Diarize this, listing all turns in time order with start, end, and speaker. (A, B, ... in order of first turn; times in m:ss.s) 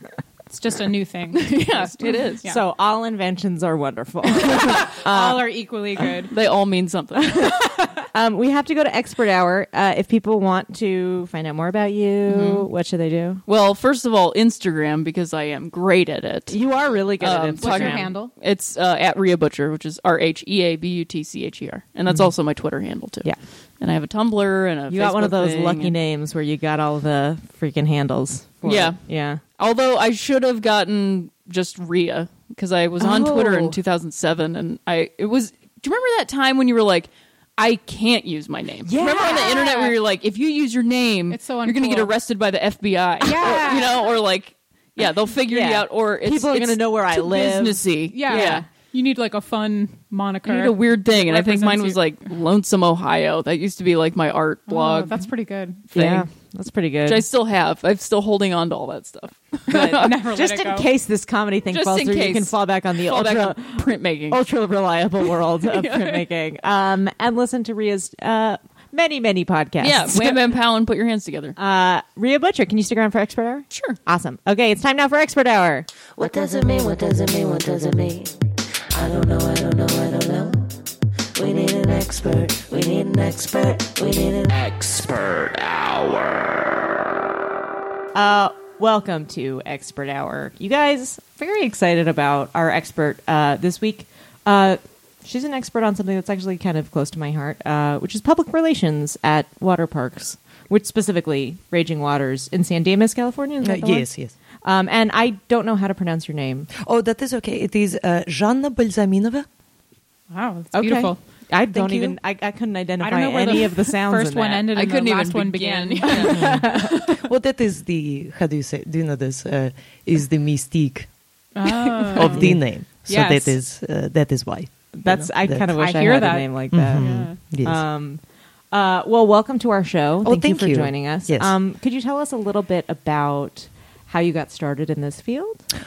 0:00.5-0:02.6 A
0:01.4-0:02.4 B
0:02.4-0:05.5 C
0:04.5-0:06.3 A
0:06.3-0:07.6 B
0:07.6-0:08.0 A
0:08.1-0:13.4 C
0:12.3-0:12.7 B
0:13.5-0:25.9 B
0:16.5-0:18.1 C
0:17.6-0:18.3 A
0:24.9-0:29.4 C
0:28.6-0:48.7 B
0:33.0-0:33.8 C
0:38.8-0:39.6 C
0:39.0-0:40.0 A
0:41.3-0:42.1 A
0:43.2-0:44.0 A
0:45.5-0:48.7 C
0:48.1-0:52.0 A
0:50.4-0:55.2 B
0:54.7-0:55.8 A
0:55.9-0:56.3 B
0:55.9-0:57.3 C
0:57.1-1:00.1 B
0:59.7-1:00.9 A
0:59.7-1:10.4 C
1:01.7-1:04.4 B
1:05.7-1:06.2 B
1:09.8-1:11.6 B
1:11.6-1:15.9 C
1:13.7-1:14.0 B
1:16.2-1:18.3 D
1:18.9-1:20.6 D
1:21.4-1:26.5 D
1:28.1-1:44.1 C
1:43.6-1:44.3 E
1:44.6-1:46.7 C
1:46.8-1:49.5 E
1:50.3-1:51.2 A
1:50.7-1:54.7 C
1:51.7-1:52.2 E
1:53.0-1:56.9 A
1:54.7-1:56.6 B
1:56.3-1:56.7 C
1:56.4-2:01.1 E
2:01.6-2:03.6 A
2:02.2-2:05.8 E
2:02.2-2:02.6 C
2:05.0-2:15.6 C
2:05.8-2:07.4 A
2:06.7-2:07.8 E
2:10.2-2:11.5 E